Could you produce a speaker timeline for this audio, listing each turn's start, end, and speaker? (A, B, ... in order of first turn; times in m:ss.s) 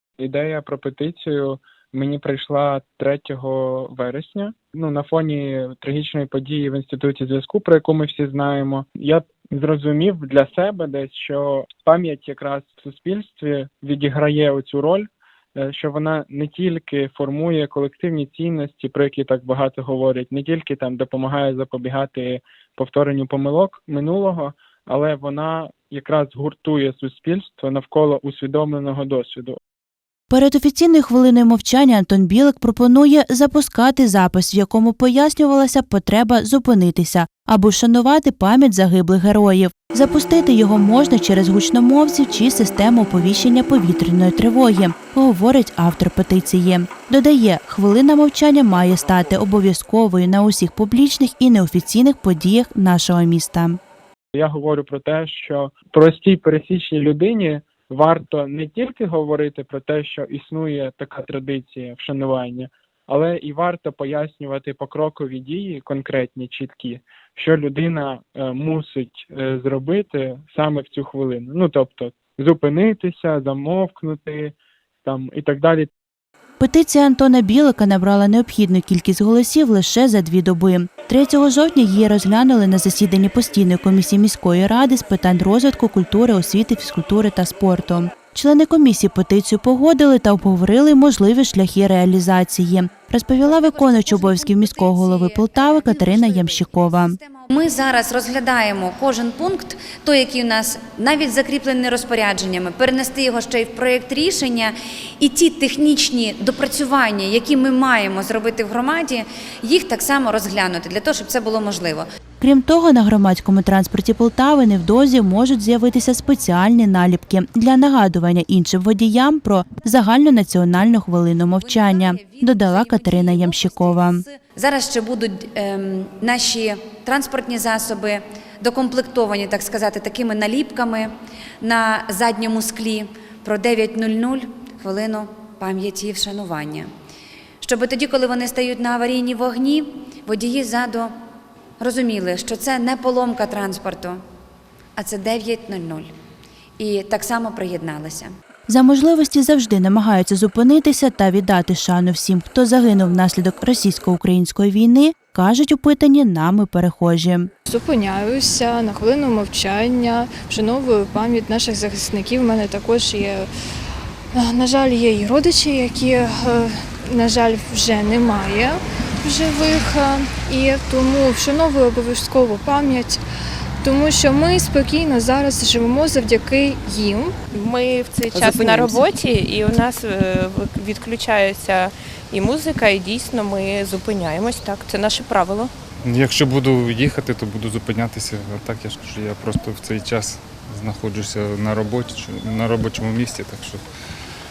0:00.2-0:29.6 A
0:30.3-0:53.8 B
0:54.3-1:15.9 A
1:16.6-1:37.2 B
1:33.4-1:52.0 C
1:52.4-2:04.2 B
2:01.5-2:11.1 C
2:11.6-2:16.9 C
2:17.6-2:21.1 C
2:21.8-2:24.2 C
2:25.0-2:26.1 C
2:26.8-2:28.3 C
2:28.7-2:37.5 B
2:37.7-2:43.5 D
2:44.3-2:53.2 D
2:53.8-2:57.4 D
2:57.6-3:05.7 E
3:06.0-3:13.8 F